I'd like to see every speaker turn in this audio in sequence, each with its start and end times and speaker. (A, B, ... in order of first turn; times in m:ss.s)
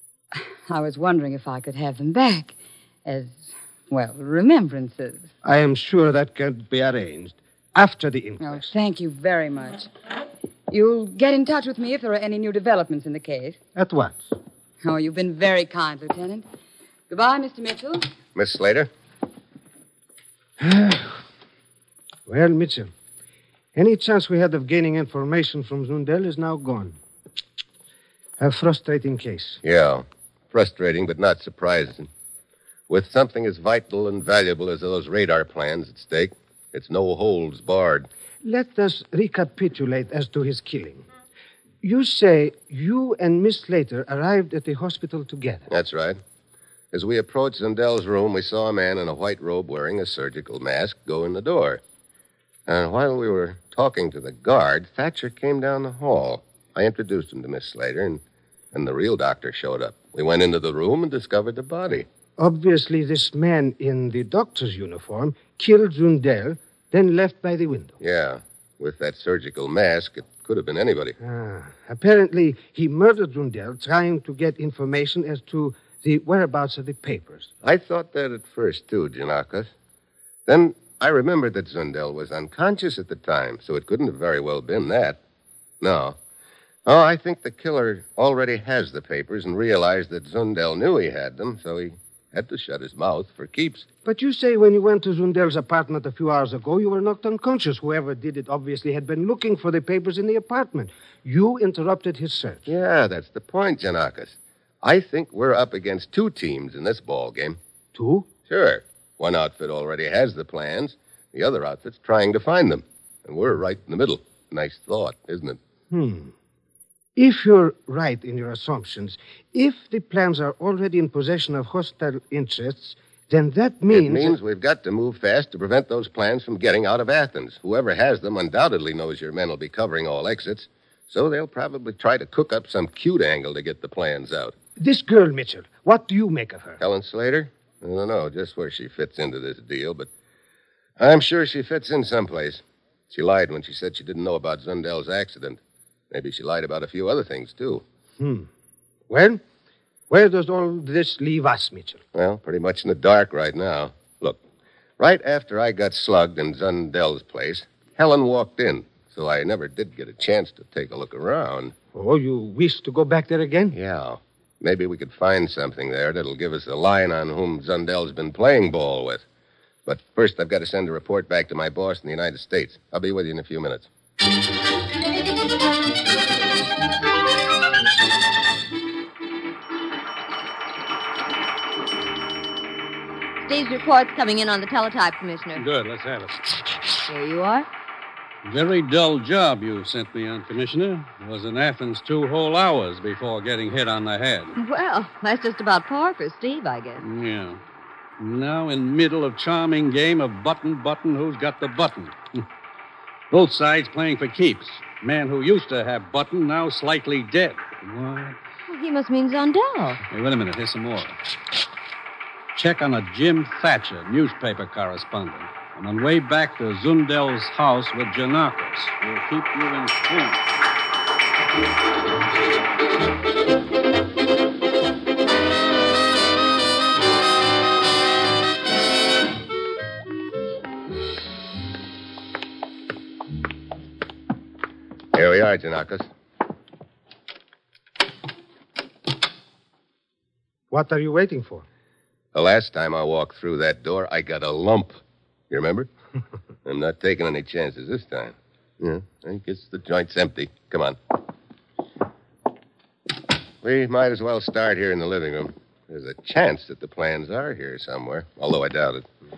0:00.7-0:02.6 A
0:03.1-0:05.3 A
0:05.4-0:08.7 B
0:08.4-0:09.9 A
0:10.7-0:13.6 A
0:13.8-0:14.3 B
0:14.8-0:16.4 A
0:17.1-0:18.1 A
0:18.4-0:18.9 C
0:20.6-0:21.2 B
0:22.3-0:22.9 B
0:23.8-0:27.0 B
0:28.4-0:29.6 B
0:29.6-0:32.1 C
0:32.9-0:38.1 C
0:38.4-0:41.1 B
0:41.8-0:45.7 B
0:45.7-0:46.2 C
0:46.9-0:51.8 C
0:52.7-0:58.2 C
0:58.7-1:02.1 C
1:02.4-1:08.0 B
1:08.0-1:11.2 C
1:11.2-1:17.5 B
1:17.6-1:19.7 C
1:20.5-1:25.2 C
1:25.8-1:26.2 C
1:26.9-1:33.9 C
1:34.0-1:42.7 B
1:42.7-1:47.6 C
1:47.9-1:48.3 B
1:48.5-1:55.6 C
1:55.9-1:56.3 B
1:57.2-2:04.4 B
2:03.9-2:14.6 C
2:14.8-2:16.8 B
2:16.8-2:20.1 C
2:21.0-2:27.8 C
2:28.2-2:28.5 B
2:29.1-2:29.4 B
2:30.1-2:32.0 B
2:32.1-2:34.4 C
2:35.0-2:41.7 C
2:41.9-2:43.8 B
2:43.7-2:49.2 C
2:49.9-2:53.9 C
3:03.5-3:05.7 D
3:05.6-3:06.3 E
3:07.0-3:07.7 D
3:08.4-3:14.5 E
3:14.6-3:17.0 D
3:17.1-3:17.6 E
3:18.2-3:22.1 E
3:23.3-3:28.4 E
3:28.7-3:30.0 D
3:30.1-3:31.1 E
3:32.6-3:40.4 E
3:55.1-3:56.1 C
4:00.7-4:01.7 B
4:02.3-4:05.9 C
4:06.6-4:11.0 C
4:13.6-4:19.1 C